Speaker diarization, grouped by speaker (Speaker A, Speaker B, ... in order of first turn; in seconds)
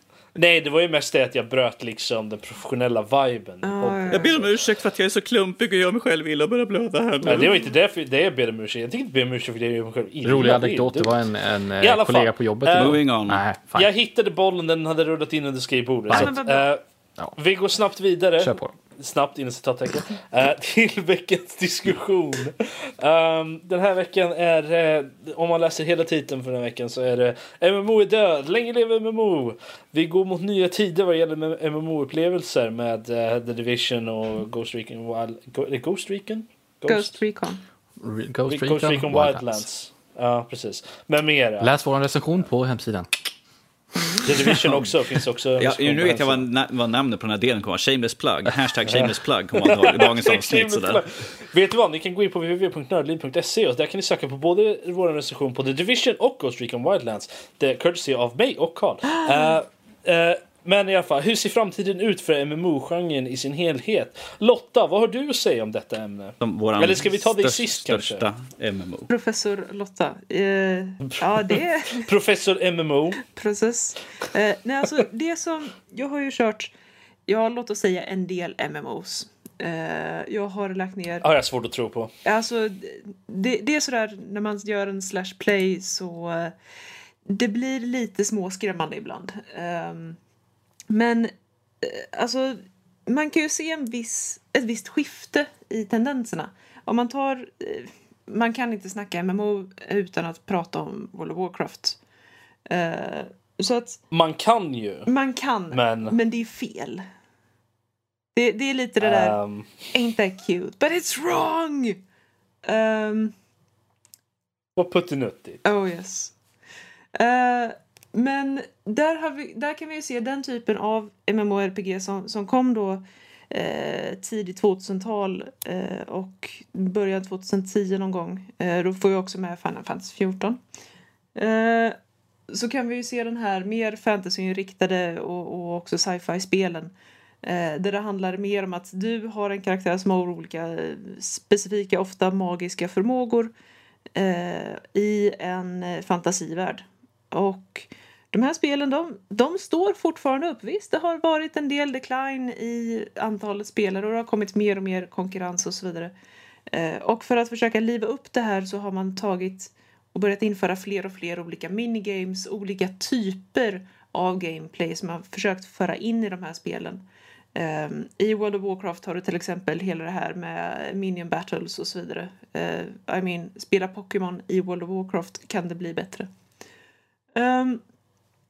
Speaker A: 0.3-4.5, 7.2-11.2, 11.8-13.0, 13.7-16.8, 17.3-37.2, 38.4-41.7, 44.2-46.5, 48.8-68.3, 71.1-73.2, 81.2-82.1, 104.1-105.1, 105.7-106.2, 109.0-109.9, 114.8-115.6
Speaker B: 3.6-4.4, 7.3-7.6, 16.1-16.7, 36.9-37.6, 59.2-59.5, 69.1-72.1, 73.2-76.7, 77.3-81.2, 82.2-86.5, 87.2-90.2, 90.9-102.0, 102.7-104.0, 105.1-107.0, 108.3-109.4, 109.9-112.0, 112.6-113.3, 115.6-116.3, 117.1-130.6, 131.3-131.9, 132.5-143.5, 144.1-156.1, 156.7-167.0, 167.5-176.3, 177.3-177.8
Speaker C: 4.1-7.5, 12.7-13.4, 45.6-51.0, 66.4-69.1
Speaker D: 10.2-13.9, 18.4-18.7, 38.0-39.6, 41.6-43.1